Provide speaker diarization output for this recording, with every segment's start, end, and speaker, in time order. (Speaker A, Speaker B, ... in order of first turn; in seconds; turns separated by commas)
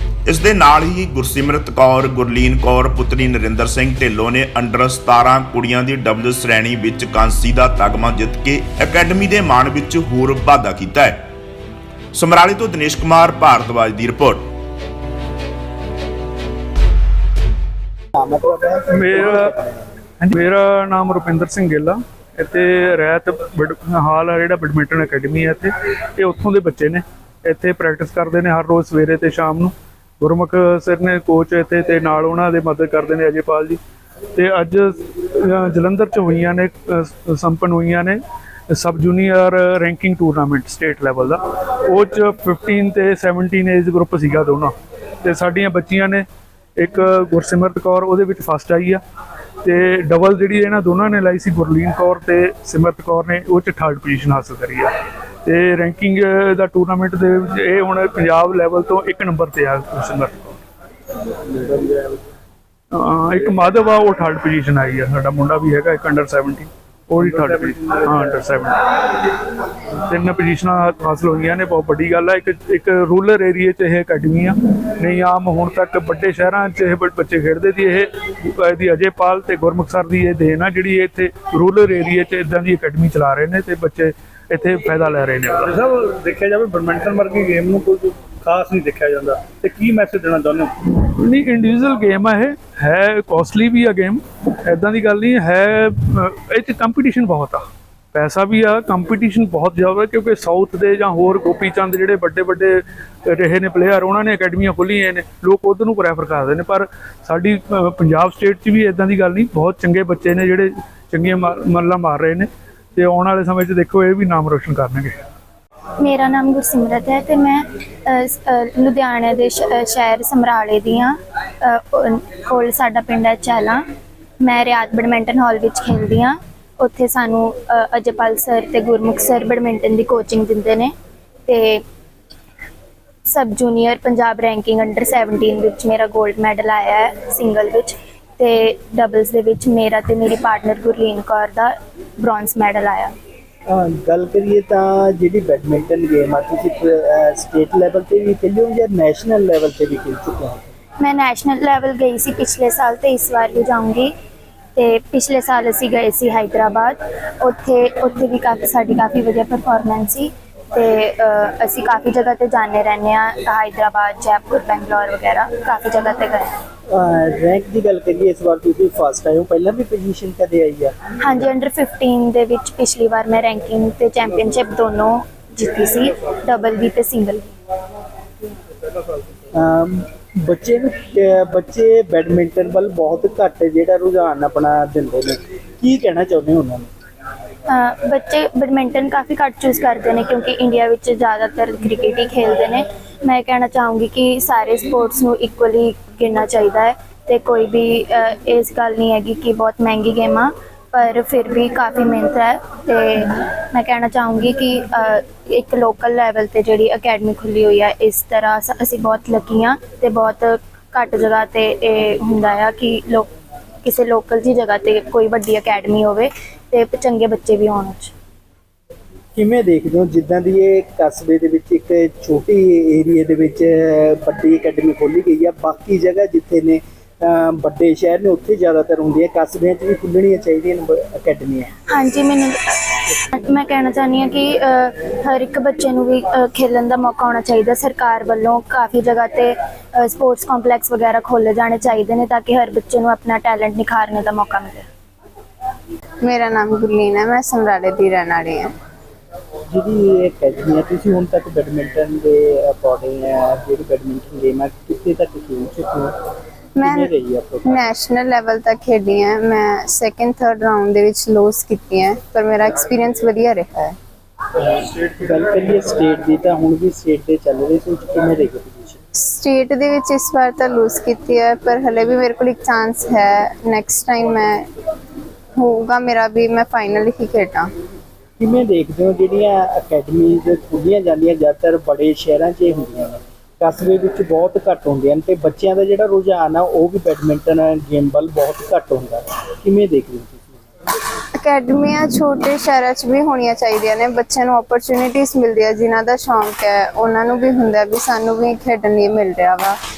Speaker A: 0.3-11.2, Speaker A: 12.1-14.5, Speaker B: 18.1-19.9, Speaker C: 18.9-19.5, Speaker C: 20.2-33.8, Speaker C: 34.4-46.3, Speaker C: 46.8-49.0, Speaker C: 49.6-54.9, Speaker C: 55.5-60.6, Speaker D: 61.6-62.0, Speaker C: 62.9-68.8, Speaker C: 69.9-85.8, Speaker D: 85.7-90.8, Speaker C: 90.9-115.2, Speaker E: 116.0-123.8, Speaker E: 124.4-130.9, Speaker E: 131.5-131.8, Speaker E: 133.2-143.1, Speaker B: 143.7-150.7, Speaker E: 151.0-154.1, Speaker E: 154.8-166.5, Speaker B: 166.9-170.9, Speaker E: 171.2-177.5, Speaker B: 179.5-186.9, Speaker E: 187.7-213.3, Speaker E: 213.8-218.1, Speaker B: 219.3-231.7, Speaker E: 231.9-244.9, Speaker F: 246.2-248.7, Speaker B: 249.7-256.1, Speaker F: 256.8-257.1, Speaker B: 256.8-257.8, Speaker F: 257.7-263.9, Speaker B: 264.6-269.0, Speaker F: 269.3-274.6, Speaker F: 275.6-277.7, Speaker B: 278.4-290.6, Speaker F: 291.4-299.8